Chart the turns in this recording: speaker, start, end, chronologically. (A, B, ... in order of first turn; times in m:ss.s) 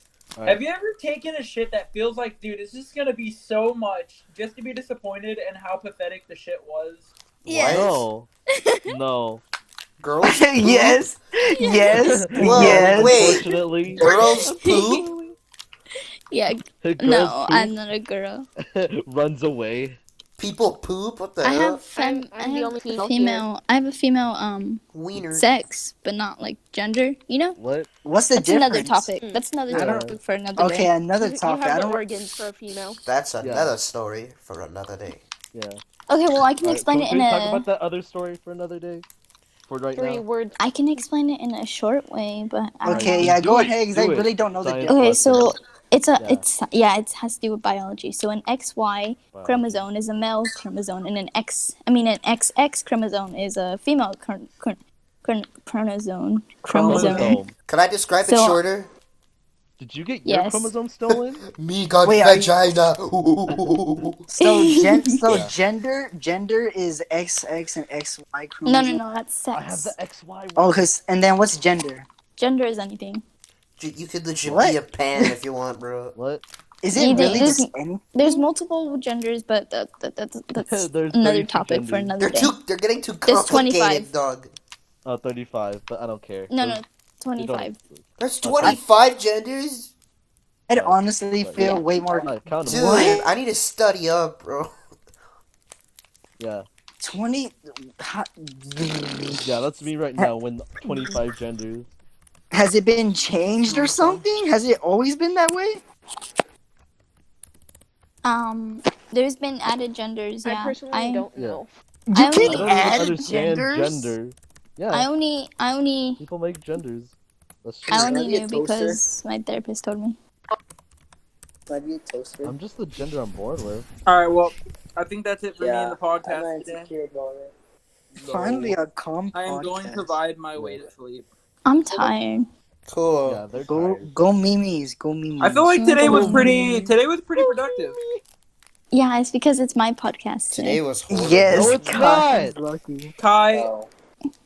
0:00.4-0:00.6 A
0:00.4-0:07.1 B
0:07.4-0:08.0 C
0:07.4-0:08.0 D
0:07.7-0:08.3 A
0:08.9-0:09.4 A
0:10.0-0:11.0 C
0:10.2-0:13.2 E
0:11.6-0:11.9 D
0:12.0-0:14.0 A
0:12.4-0:15.1 C
0:14.4-0:15.1 D
0:16.3-0:18.5 D
0:16.8-0:17.7 A
0:18.8-0:20.0 A
0:20.4-0:21.8 C
0:21.4-0:27.6 D
0:21.9-0:23.5 F
0:24.9-0:25.5 C
0:27.6-0:27.9 A
0:28.0-0:29.1 E
0:28.4-0:30.9 D
0:29.2-0:29.5 F
0:29.7-0:30.0 E
0:29.7-0:30.2 A
0:30.6-0:32.1 E
0:31.2-0:33.0 F
0:32.8-0:35.2 C
0:33.4-0:33.8 A
0:35.5-0:35.8 A
0:36.1-0:37.6 D
0:36.6-0:39.0 A
0:39.6-0:40.2 A
0:39.9-0:40.6 F
0:40.6-0:43.3 D
0:42.8-0:45.5 E
0:42.8-0:45.4 A
0:44.9-0:57.4 D
0:46.2-0:46.4 A
0:49.3-0:49.8 A
0:56.6-0:57.3 E
0:56.7-0:57.5 A
0:57.7-0:58.9 C
0:58.2-0:58.6 D
0:59.8-1:01.4 A
1:00.2-1:00.7 D
1:01.1-1:04.2 C
1:02.0-1:02.6 E
1:04.3-1:09.0 E
1:04.4-1:04.9 D
1:05.3-1:05.5 A
1:08.6-1:09.9 D
1:09.5-1:10.9 A
1:10.6-1:12.1 E
1:12.4-1:13.2 D
1:13.8-1:16.1 C
1:14.4-1:15.3 E
1:16.1-1:16.4 A
1:16.8-1:18.4 E
1:16.9-1:22.5 D
1:20.6-1:22.1 A
1:22.2-1:24.5 C
1:23.2-1:24.1 D
1:25.0-1:26.8 A
1:26.5-1:27.8 D
1:27.4-1:28.8 A
1:28.2-1:29.9 C
1:30.7-1:33.3 E
1:30.7-1:33.0 A
1:31.6-1:31.9 D
1:32.6-1:34.8 C
1:36.4-1:36.7 A
1:37.0-1:39.4 E
1:39.4-1:41.9 A
1:40.8-1:41.2 E
1:42.5-1:45.8 E
1:43.7-1:44.2 A
1:48.2-1:51.3 D
1:50.4-1:51.7 F
1:51.3-1:51.6 A
1:52.1-1:54.1 E
1:52.1-1:54.0 D
1:52.4-1:55.1 A
1:54.9-1:56.2 D
1:56.2-1:58.2 A
1:57.9-1:59.0 G
1:57.9-2:00.2 D
2:01.7-2:02.6 G
2:02.4-2:03.8 A
2:04.0-2:06.9 B
2:05.6-2:07.5 G
2:08.2-2:10.2 E
2:09.3-2:11.3 B
2:10.6-2:10.8 G
2:11.6-2:12.4 D
2:12.9-2:13.5 C
2:13.2-2:14.1 A
2:13.6-2:16.9 E
2:15.4-2:18.0 B
2:15.7-2:16.5 D
2:18.9-2:20.8 D
2:20.5-2:21.9 C
2:21.1-2:23.1 E
2:21.5-2:22.5 A
2:23.2-2:23.7 B
2:23.5-2:23.9 G